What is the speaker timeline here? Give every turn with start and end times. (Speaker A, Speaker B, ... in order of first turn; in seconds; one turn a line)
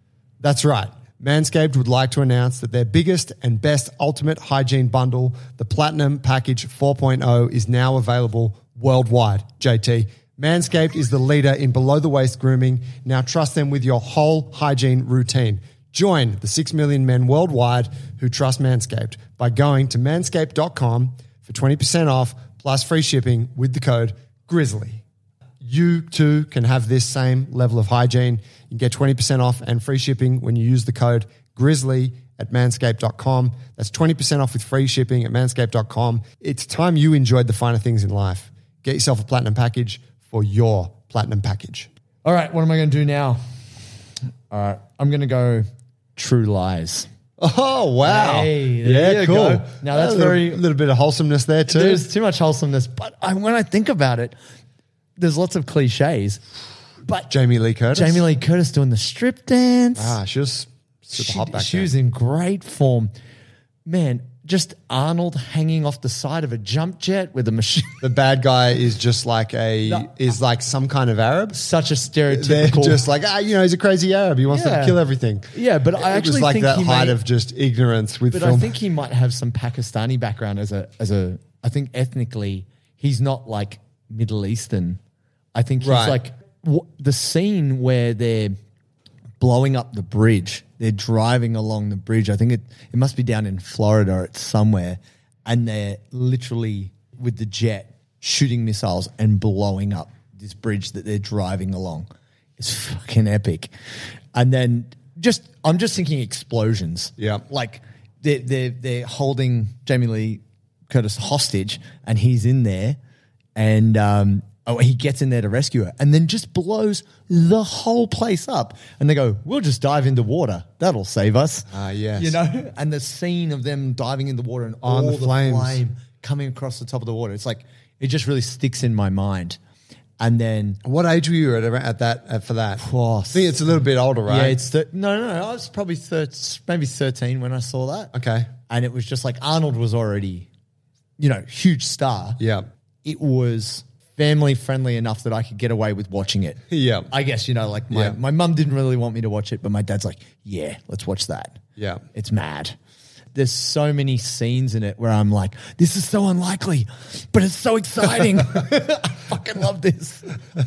Speaker A: 0.4-25.0
Speaker A: 25.6-41.9
Speaker B: 42.2-43.4
Speaker B: 44.5-47.1
Speaker A: 47.4-52.0
Speaker B: 48.0-50.6
Speaker B: 51.7-54.4
Speaker B: 55.2-56.4
Speaker B: 57.0-57.3
Speaker A: 57.3-58.2
Speaker B: 57.9-60.2
Speaker A: 60.0-61.9
Speaker B: 61.1-63.1
Speaker B: 63.9-68.0
Speaker A: 68.0-71.6
Speaker B: 69.8-70.1
Speaker B: 71.5-73.0
Speaker A: 72.3-78.8
Speaker B: 74.5-75.0
Speaker B: 75.5-77.2
Speaker B: 78.3-85.0
Speaker B: 85.5-88.6
Speaker A: 85.8-86.2
Speaker B: 89.4-103.7
Speaker B: 104.3-113.0
Speaker A: 107.2-107.4
Speaker B: 113.5-129.6
Speaker A: 121.7-122.4
Speaker A: 124.8-125.8
Speaker B: 130.2-130.8
Speaker A: 130.8-134.6
Speaker B: 132.8-133.6
Speaker B: 134.3-138.1
Speaker A: 138.1-138.5
Speaker B: 138.7-140.5
Speaker B: 141.2-142.4
Speaker A: 142.4-142.7
Speaker B: 143.0-151.6
Speaker A: 146.7-147.1
Speaker A: 147.9-148.2
Speaker A: 151.8-152.0
Speaker B: 152.1-152.8
Speaker B: 153.3-160.4